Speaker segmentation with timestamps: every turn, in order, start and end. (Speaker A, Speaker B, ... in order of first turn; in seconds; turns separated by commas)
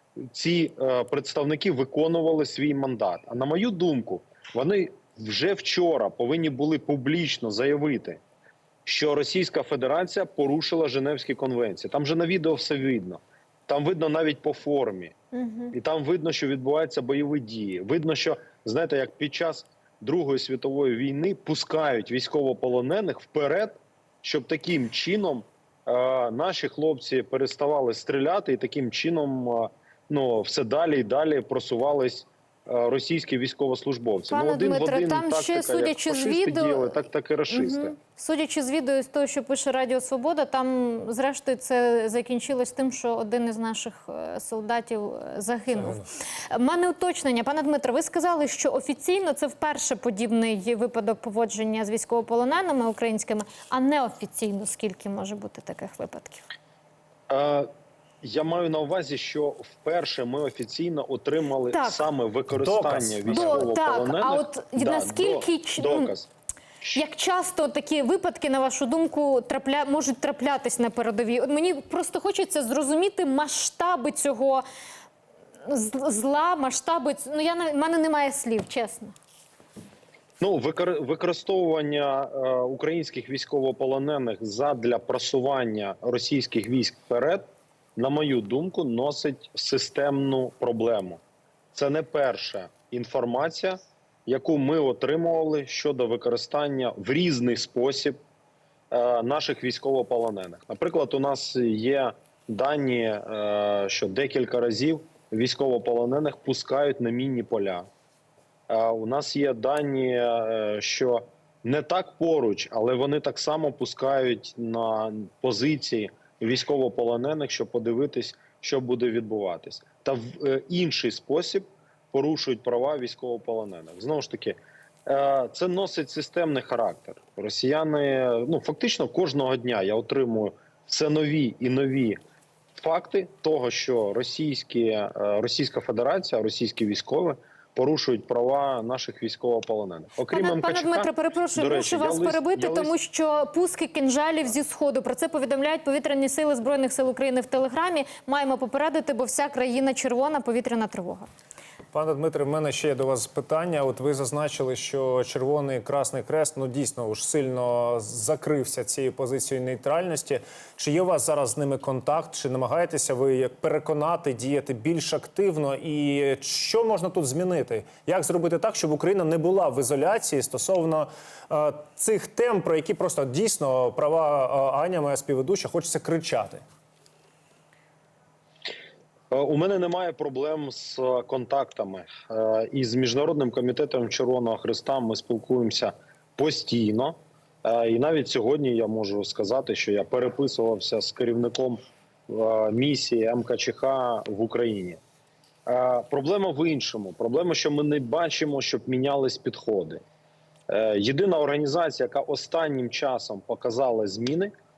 Speaker A: 0.2-8.2, Speaker A: 8.8-15.1, Speaker B: 15.3-15.7, Speaker A: 15.7-37.9, Speaker B: 34.3-56.4, Speaker C: 45.7-46.1, Speaker A: 57.3-57.7, Speaker A: 58.2-66.3, Speaker B: 61.7-62.1, Speaker C: 62.5-63.7, Speaker B: 63.3-66.1, Speaker B: 66.9-74.6, Speaker B: 75.6-79.1, Speaker A: 80.4-87.4, Speaker A: 88.0-91.2, Speaker A: 91.7-98.2, Speaker A: 98.9-107.9, Speaker A: 108.7-132.2, Speaker A: 132.8-142.9, Speaker B: 140.3-151.3, Speaker C: 151.9-176.6, Speaker A: 179.3-195.0, Speaker A: 195.7-200.0, Speaker A: 200.7-204.5